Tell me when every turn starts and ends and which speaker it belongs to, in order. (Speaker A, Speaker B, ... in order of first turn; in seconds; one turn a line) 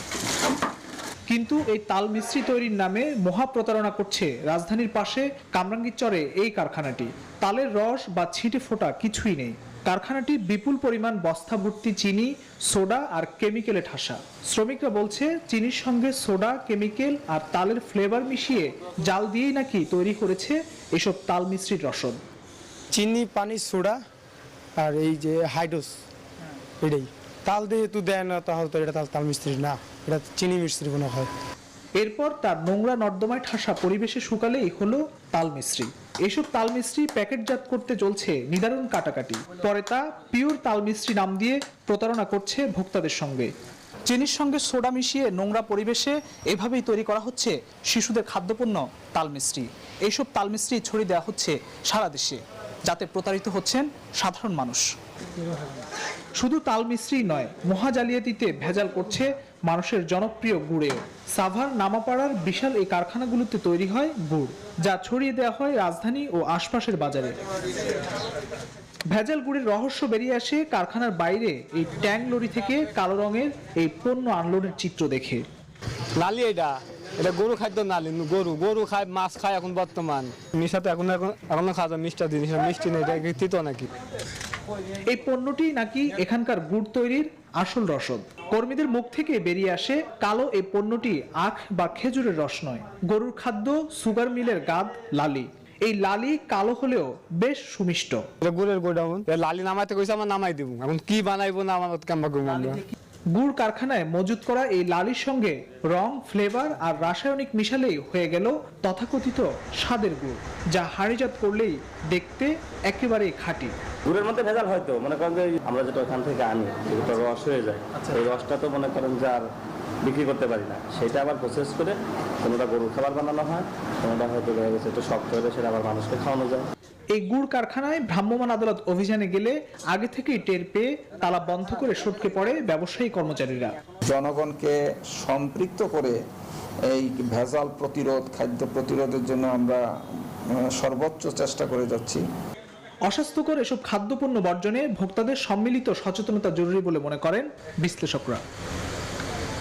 Speaker A: 1.3-22.2
Speaker B: 22.9-24.0
Speaker B: 24.8-26.0
Speaker B: 26.8-31.3
Speaker A: 32.0-43.5
Speaker A: 44.1-54.9
Speaker A: 56.4-67.4
Speaker A: 69.1-75.5
Speaker C: 76.2-83.9
Speaker A: 85.1-98.3
Speaker C: 98.4-102.8
Speaker A: 103.3-113.8
Speaker D: 114.1-119.4
Speaker D: 120.0-126.7
Speaker A: 127.1-133.8
Speaker E: 134.1-136.2
Speaker E: 136.9-142.2
Speaker A: 143.1-148.4